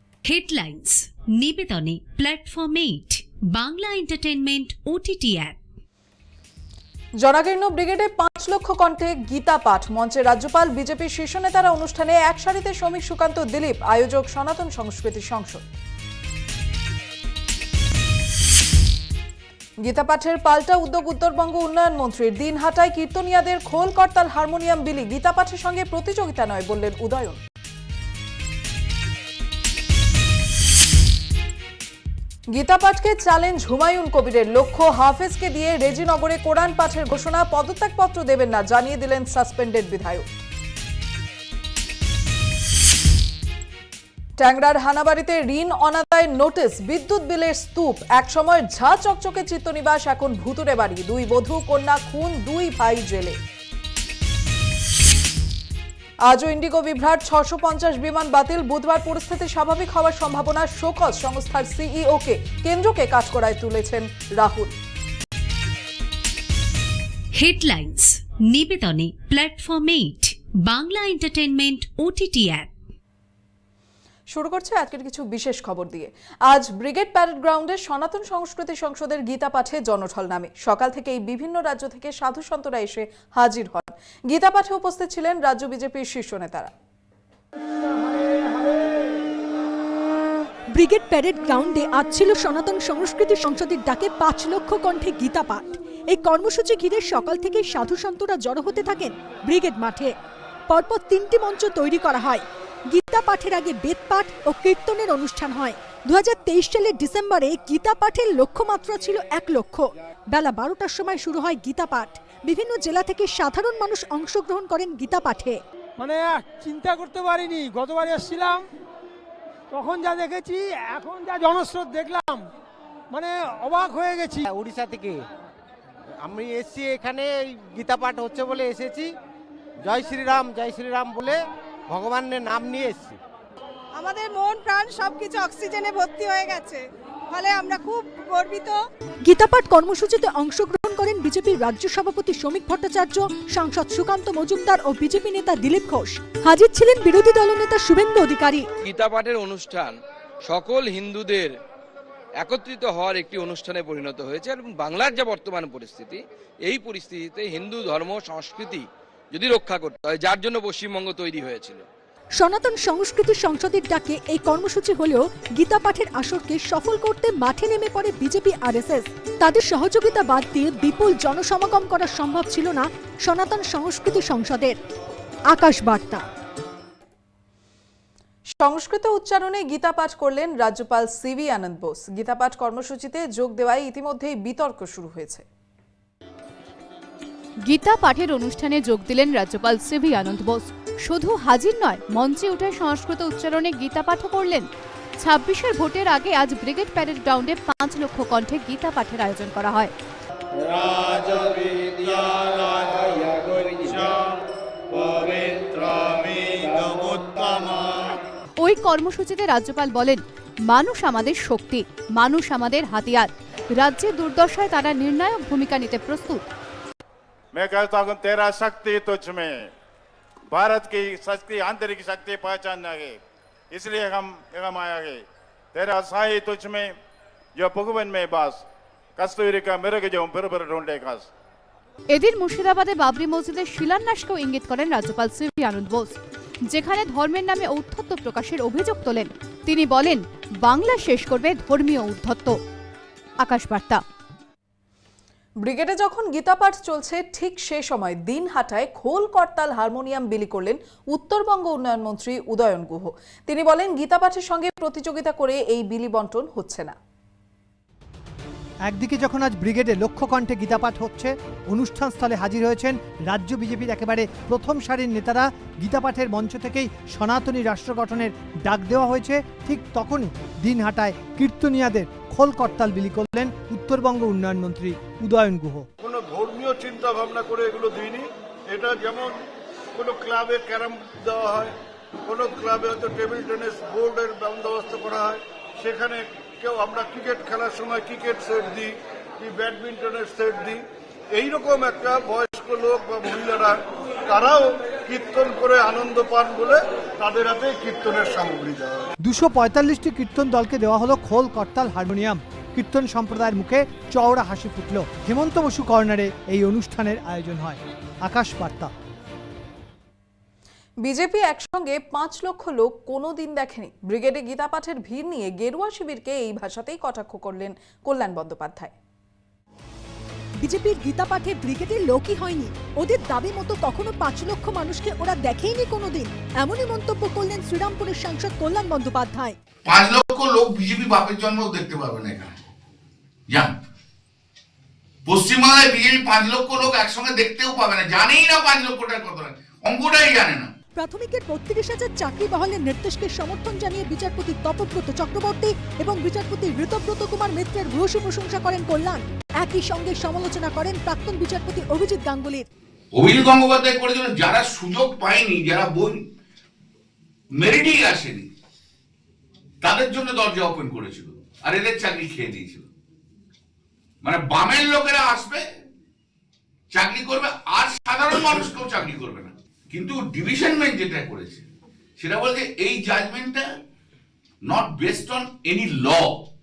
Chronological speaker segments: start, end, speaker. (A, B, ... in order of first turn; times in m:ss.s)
0:00.2-0:05.6 A
0:07.2-0:15.6 B
0:19.8-0:27.4 B
0:32.5-0:40.3 B
0:44.4-0:53.4 B
0:56.3-1:04.7 B
1:07.3-1:12.7 A
1:14.3-1:26.7 B
1:30.8-1:40.1 C
1:40.7-1:42.4 C
1:43.0-1:55.5 C
1:56.0-1:58.6 D
1:56.6-1:58.4 E
1:59.7-2:02.4 D
1:59.8-2:02.3 E
2:03.2-2:04.4 E
2:03.2-2:04.3 D
2:04.4-2:05.2 F
2:06.2-2:09.1 F
2:09.8-2:13.2 F
2:14.0-2:18.8 G
2:19.3-2:28.6 C
2:28.8-2:29.9 H
2:30.5-2:31.5 H
2:32.4-2:41.8 H
2:42.4-2:54.7 C
2:55.5-2:56.2 C
2:58.5-3:05.4 B
3:07.7-3:14.7 I
3:15.2-3:19.9 I
3:20.8-3:24.2 J
3:25.2-3:27.8 J
3:28.6-3:36.4 I
3:37.5-3:39.7 J
3:40.5-3:43.2 J
3:43.7-3:46.9 J
3:47.6-3:48.6 J
3:49.2-3:51.2 J
3:52.1-4:02.5 I
4:03.4-4:04.0 I
4:05.6-4:17.0 B
4:18.8-4:35.9 K
4:36.0-4:39.4 E
4:39.9-4:41.7 E
4:42.2-4:50.8 E
4:51.3-4:59.1 E
4:59.2-5:08.9 K
5:11.0-5:18.9 B
5:20.6-5:29.5 C
5:29.8-5:32.5 L
5:35.3-5:40.7 L
5:41.0-5:52.6 C
5:53.1-5:56.2 L
5:57.6-5:58.5 L
5:59.8-6:02.8 L
6:04.2-6:05.6 L
6:06.9-6:11.6 L
6:12.2-6:13.7 L
6:14.6-6:16.4 L